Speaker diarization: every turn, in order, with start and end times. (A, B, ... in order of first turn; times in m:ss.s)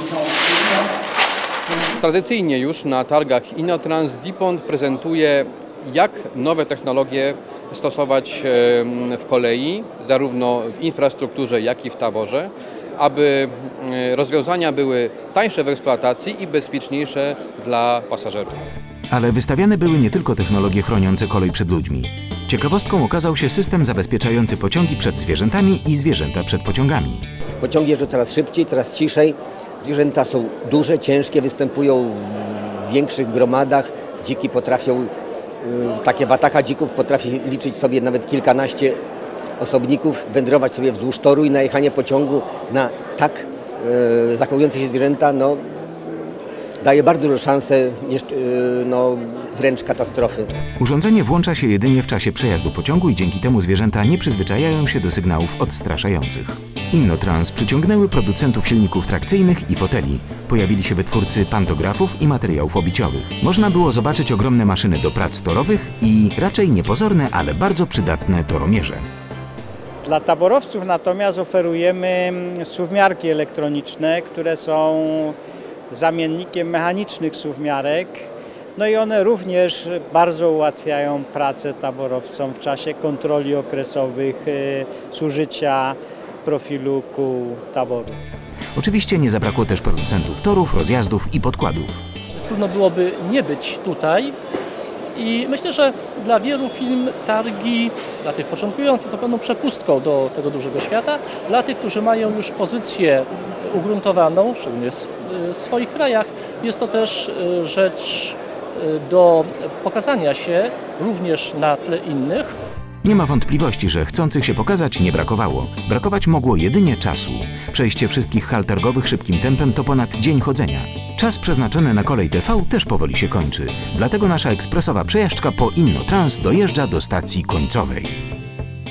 0:01.9-0:18.6 A
0:19.1-0:27.3 B
0:27.6-0:35.1 C
0:35.6-0:39.0 C
0:39.6-0:50.5 C
0:50.8-1:09.1 B
1:10.1-1:15.4 D
1:15.9-1:18.2 D
1:18.8-1:28.2 D
1:28.8-1:32.0 B
1:32.4-1:34.4 E
1:35.1-1:52.6 E
1:53.0-2:08.2 B